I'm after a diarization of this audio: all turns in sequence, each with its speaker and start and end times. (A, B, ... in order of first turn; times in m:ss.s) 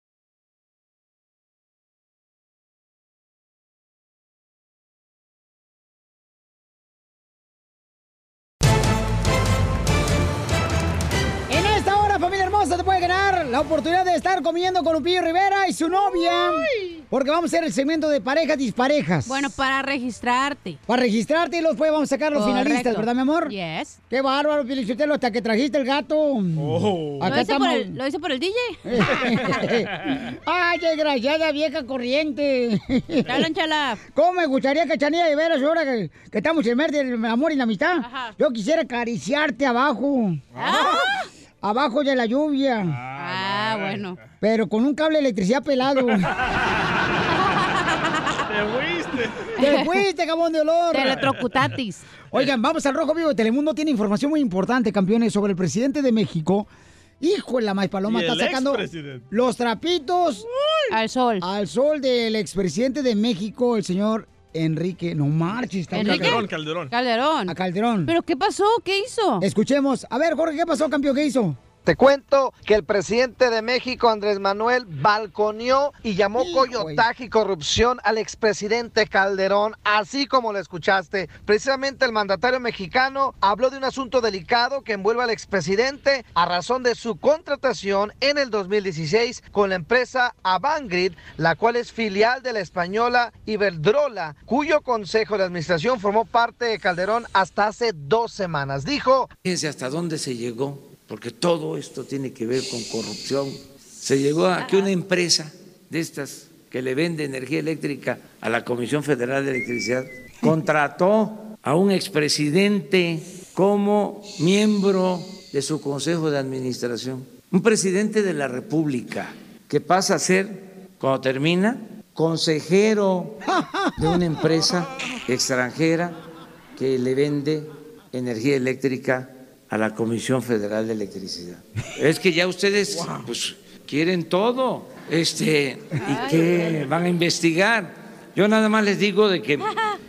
0:11.5-0:19.5 A
0:19.3-0:20.8 B
0:20.9-0:23.6 A
0:22.3-0:24.0 B
0:24.1-0:28.0 A
0:26.6-0:27.3 C
0:27.2-0:29.3 B
0:28.9-0:33.4 A
0:33.3-0:34.0 B
0:34.1-0:40.4 A
0:38.0-0:38.3 B
0:40.5-0:41.1 C
0:40.6-0:41.3 B
0:41.6-0:43.0 A
0:42.9-0:44.1 C
0:43.2-0:44.2 B
0:44.4-0:46.3 A
0:46.0-0:47.1 C
0:47.4-0:48.4 B
0:48.5-0:49.6 C
0:49.6-0:49.9 B
0:49.6-0:51.2 A
0:50.9-0:52.1 B
0:51.1-0:51.5 C
0:52.3-0:56.7 A
0:57.2-1:00.5 A
0:58.0-0:59.2 C
1:00.5-1:00.9 C
1:00.9-1:01.4 B
1:01.4-1:06.4 A
1:05.9-1:09.4 B
1:06.0-1:06.9 C
1:07.5-1:08.1 A
1:09.4-1:11.6 A
1:11.8-1:39.3 D
1:16.4-1:17.0 A
1:39.4-2:03.4 E
1:44.6-1:44.9 B
2:03.5-2:04.2 A
2:04.0-2:06.2 E
2:06.8-2:19.7 E
2:12.9-2:13.3 C
2:16.0-2:16.9 B
2:19.6-2:20.0 B